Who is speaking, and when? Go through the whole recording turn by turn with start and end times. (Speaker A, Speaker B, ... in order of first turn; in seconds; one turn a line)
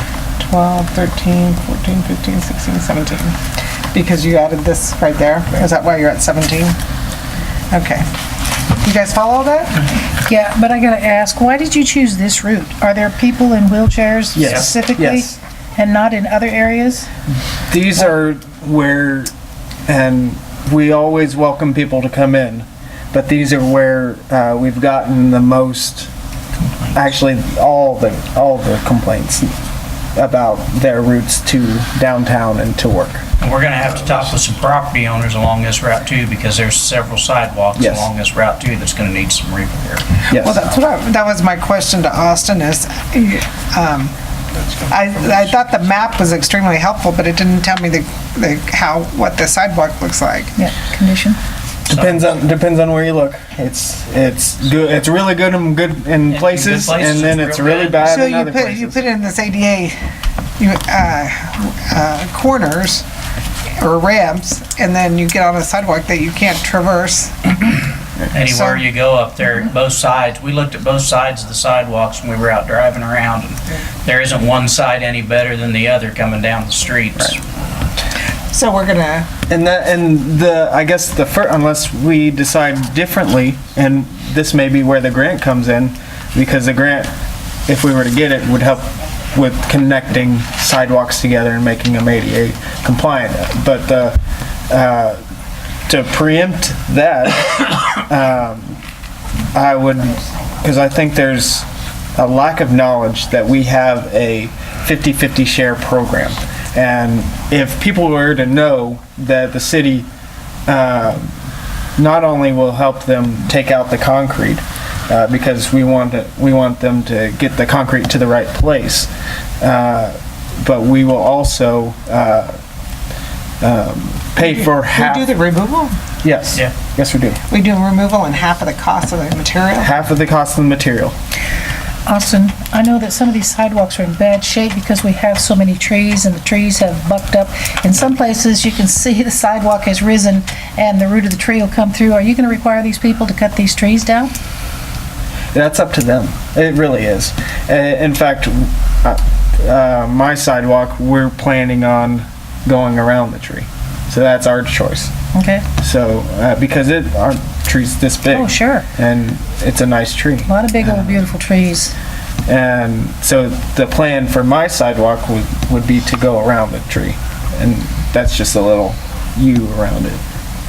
Speaker A: 0.4-3.4
Speaker A: 3.9-6.8
Speaker A: 7.7-8.1
Speaker A: 8.8-9.8
Speaker B: 10.1-17.1
Speaker C: 14.3-15.4
Speaker D: 14.4-14.7
Speaker C: 17.7-19.3
Speaker C: 19.9-26.1
Speaker D: 26.7-26.9
Speaker C: 26.9-29.5
Speaker C: 30.1-33.2
Speaker D: 33.4-40.2
Speaker C: 37.8-38.1
Speaker A: 40.3-44.1
Speaker C: 40.3-40.7
Speaker A: 44.9-50.5
Speaker B: 50.5-51.4
Speaker C: 51.9-59.0
Speaker D: 51.9-52.2
Speaker D: 56.3-58.2
Speaker A: 58.0-60.0
Speaker A: 60.6-63.0
Speaker A: 63.8-67.7
Speaker D: 68.3-77.4
Speaker A: 68.4-68.8
Speaker A: 78.5-79.3
Speaker C: 79.5-87.1
Speaker C: 87.7-94.2
Speaker C: 94.7-95.2
Speaker C: 95.9-98.8
Speaker C: 99.5-110.1
Speaker C: 110.7-111.3
Speaker C: 112.0-119.1
Speaker C: 119.6-122.6
Speaker C: 123.6-125.3
Speaker A: 124.4-126.0
Speaker C: 126.2-127.4
Speaker A: 127.5-129.9
Speaker C: 129.8-131.1
Speaker B: 132.1-144.3
Speaker C: 145.5-155.1
Speaker B: 155.3-155.7
Speaker C: 155.8-161.1
Speaker B: 158.3-158.8
Speaker B: 160.5-161.9
Speaker C: 162.4-170.2